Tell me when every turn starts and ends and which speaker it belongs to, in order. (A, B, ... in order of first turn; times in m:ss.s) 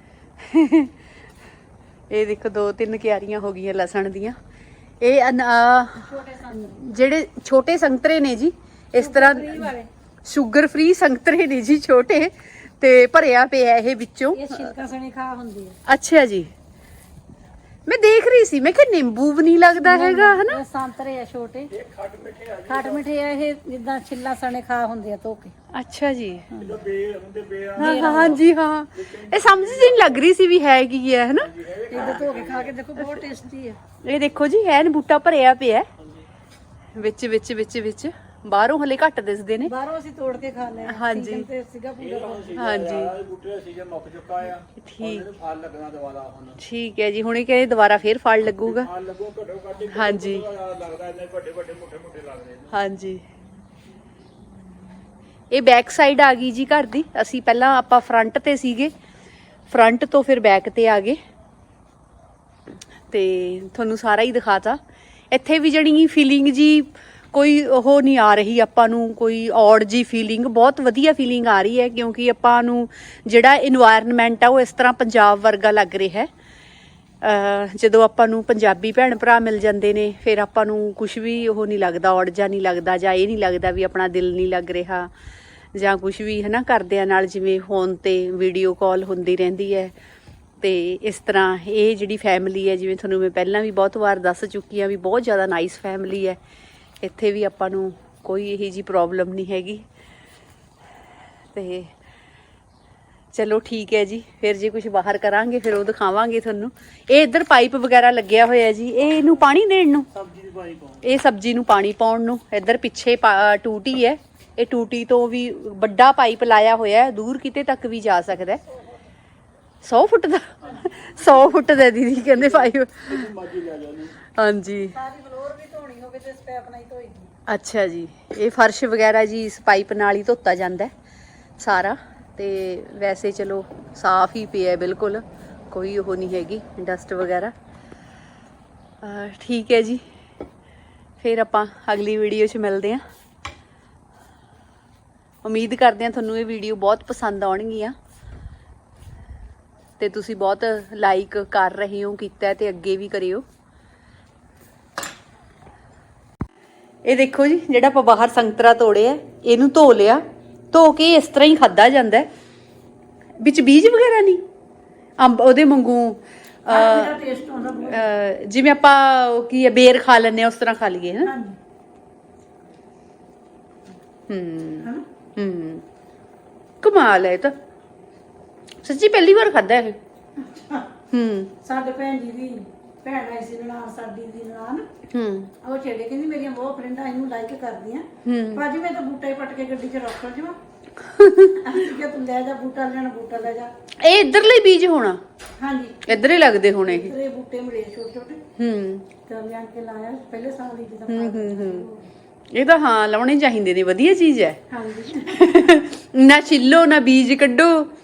0:00.4-0:00.9 A
0:02.1-0:04.4 A
0:05.0-0:09.7 A
0:06.0-0:06.8 B
0:09.0-0:09.9 B
0:10.2-0:14.7 A
0:14.3-0:15.8 B
0:15.9-0:16.5 A
0:17.9-0:20.6 A
0:19.7-0:21.7 B
0:21.7-0:23.1 C
0:22.7-0:25.5 B
0:25.7-0:26.6 A
0:26.6-0:30.2 C
0:27.8-0:28.4 B
0:27.8-0:32.2 A
0:31.4-0:32.7 C
0:31.9-0:33.8 B
0:34.0-0:35.9 A
0:36.0-0:36.2 C
0:36.9-0:39.7 A
0:39.6-0:42.7 B
0:40.9-0:41.4 A
0:42.0-0:46.6 C
0:42.6-0:43.1 A
0:44.8-0:45.3 A
0:46.6-0:48.9 A
0:48.6-0:52.8 C
0:49.9-0:50.4 A
0:52.7-0:53.2 A
0:55.5-0:58.9 A
0:59.7-1:01.2 A
1:03.1-1:04.8 A
1:05.3-1:16.3 A
1:17.2-1:25.1 A
1:25.8-1:29.9 A
1:30.6-1:36.4 A
1:37.0-1:39.8 A
1:41.5-1:41.9 A
1:43.3-1:50.1 A
1:49.1-1:49.5 C
1:50.1-1:51.1 C
1:51.0-1:58.6 A
1:59.8-2:03.3 A
2:00.6-2:01.6 C
2:02.3-2:04.2 C
2:04.3-2:05.0 A
2:04.9-2:07.3 B
2:07.5-2:10.9 A
2:11.6-2:17.5 A
2:19.0-2:20.0 A
2:21.2-2:23.0 A
2:25.4-2:27.9 A
2:30.0-2:33.4 A
2:37.0-2:42.3 A
2:43.4-2:44.4 A
2:45.2-2:51.3 A
2:46.7-2:48.1 B
2:51.2-2:51.6 B
2:54.3-2:55.8 A
2:56.8-2:57.6 A
2:58.8-3:00.0 A
3:00.5-3:00.9 B
3:01.1-3:01.6 A
3:01.6-3:04.9 B
3:05.1-3:05.5 A
3:05.6-3:10.6 B
3:08.2-3:08.7 A
3:11.0-3:11.6 A
3:11.6-3:13.7 B
3:14.0-3:15.2 A
3:15.6-3:18.4 B
3:16.1-3:17.1 A
3:18.6-3:19.1 A
3:19.3-3:22.1 B
3:21.1-3:21.8 A
3:22.5-3:24.6 A
3:24.7-3:25.4 B
3:25.2-3:27.9 A